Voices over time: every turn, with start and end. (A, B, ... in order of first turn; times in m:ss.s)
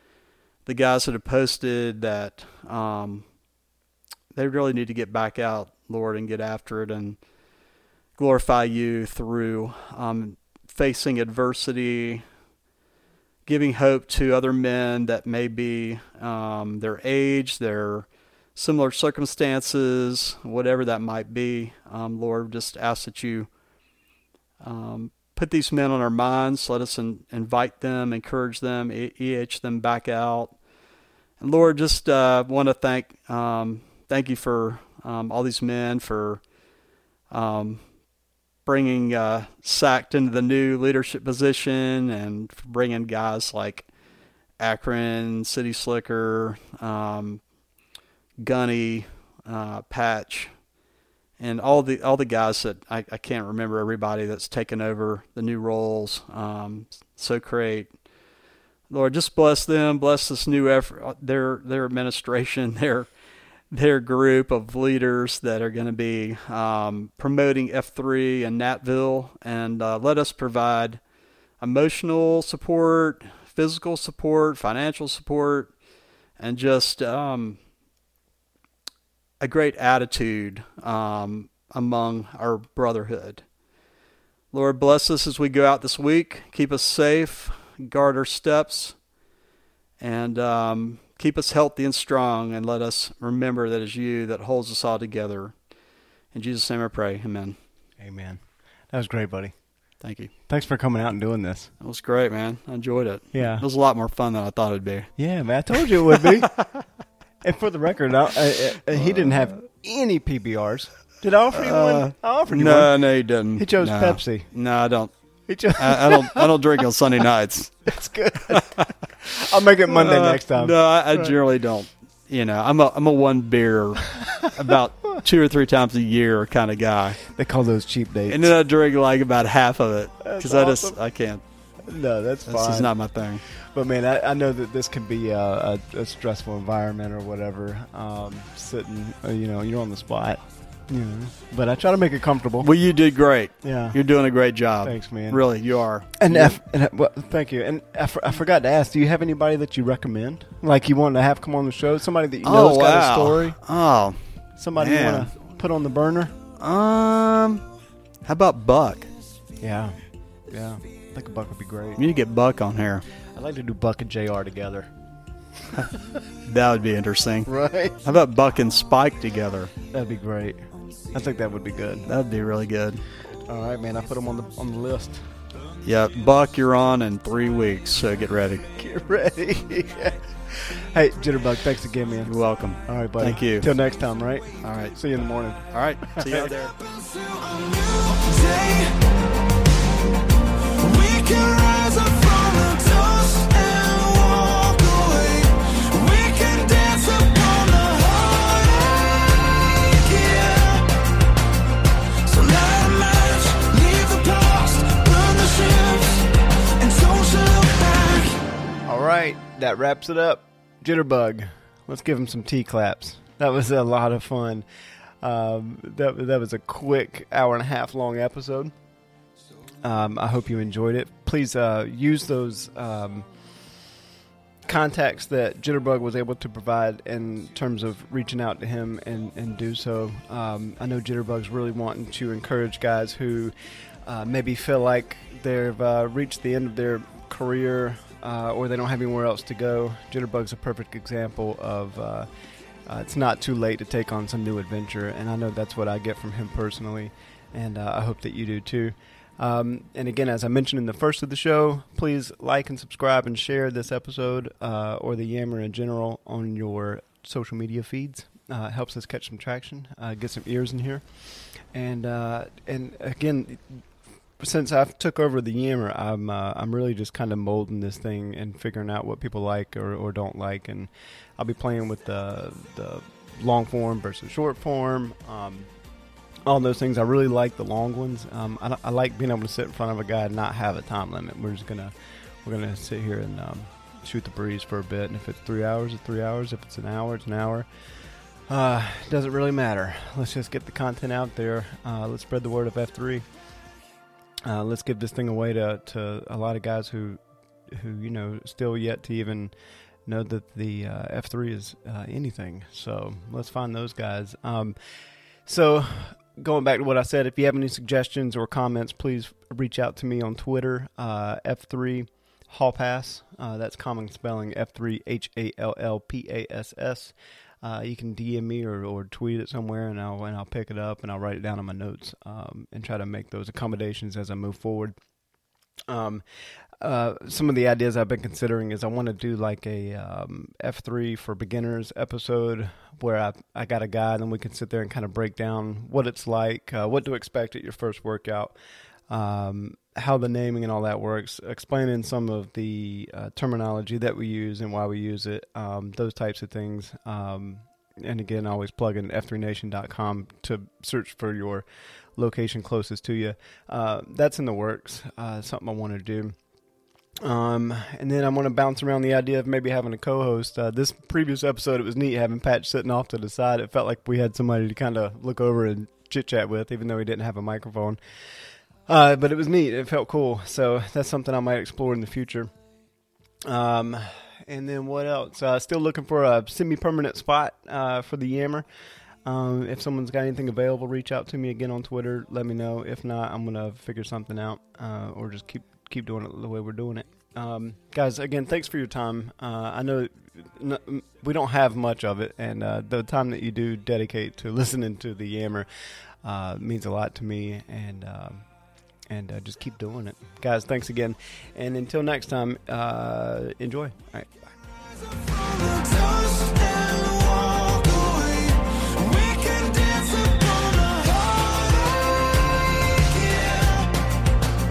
0:00.6-0:03.2 A
0:04.3-0:07.2 A
0:08.2-0:12.2 A
0:13.4-0:23.5 A
0:24.6-0:30.5 A
0:31.4-0:36.4 A
0:37.3-0:37.8 A
0:38.6-0:43.9 A
0:44.6-0:47.4 A
0:48.4-0:50.5 A
0:51.4-0:57.9 A
0:58.9-1:03.1 A
1:03.7-1:11.0 A
1:11.6-1:15.7 A
1:16.4-1:17.6 A
1:19.4-1:23.4 A
1:24.5-1:29.0 A
1:30.0-1:35.5 A
1:36.3-1:37.6 A
1:38.0-1:38.4 B
1:38.9-1:39.5 B
1:40.0-1:40.3 A
1:40.5-1:41.7 B
1:41.8-1:45.1 A
1:43.3-1:43.6 B
1:45.2-1:46.5 B
1:45.7-1:46.8 A
1:47.4-1:52.9 B
1:48.9-1:49.5 A
1:51.5-1:55.1 A
1:53.6-1:54.5 B
1:55.5-1:56.5 B
1:55.8-1:57.9 A
1:57.8-2:01.4 B
1:58.4-1:58.9 A
1:59.9-2:07.2 A
2:04.0-2:04.5 B
2:07.2-2:08.5 B
2:08.3-2:11.4 A
2:10.2-2:11.0 B
2:11.8-2:12.9 B
2:12.5-2:13.4 A
2:13.7-2:22.7 B
2:22.6-2:26.6 A
2:23.6-2:24.0 B
2:24.8-2:25.4 B
2:26.2-2:33.6 B
2:32.4-2:34.2 A
2:34.6-2:36.3 B
2:34.8-2:35.3 A
2:36.6-2:37.6 A
2:38.2-2:39.1 A
2:39.6-2:40.0 B
2:40.5-2:42.0 B
2:42.0-2:43.0 A
2:43.3-2:44.9 B
2:45.7-2:46.0 B
2:46.4-2:47.5 A
2:47.4-2:48.0 B
2:48.0-2:49.7 A
2:49.9-2:50.6 B
2:51.1-2:52.1 B
2:52.0-2:53.0 A
2:53.2-2:55.2 B
2:55.8-2:58.6 A
2:58.7-3:02.3 B
3:02.2-3:03.7 A
3:02.8-3:06.5 B
3:04.6-3:05.0 A
3:05.7-3:06.7 A
3:06.8-3:09.1 C
3:10.6-3:21.0 C
3:22.2-3:28.4 C
3:28.8-3:34.6 B
3:35.2-3:38.7 B
3:39.8-3:43.3 B
3:44.6-3:53.5 B
3:54.0-4:02.3 B
4:02.8-4:23.8 B
4:24.4-4:35.7 B
4:36.4-4:47.7 B
4:48.5-4:53.2 B
4:54.4-4:59.5 B
5:00.0-5:04.8 B
5:05.4-5:25.0 B
5:25.9-5:26.2 B
5:26.8-5:38.6 B
5:39.1-5:56.4 B
5:57.2-6:08.0 B
6:08.9-6:12.5 B
6:13.4-6:18.6 B
6:19.2-6:35.7 B
6:36.2-6:38.5 B
6:39.1-6:44.3 B
6:45.0-6:54.2 C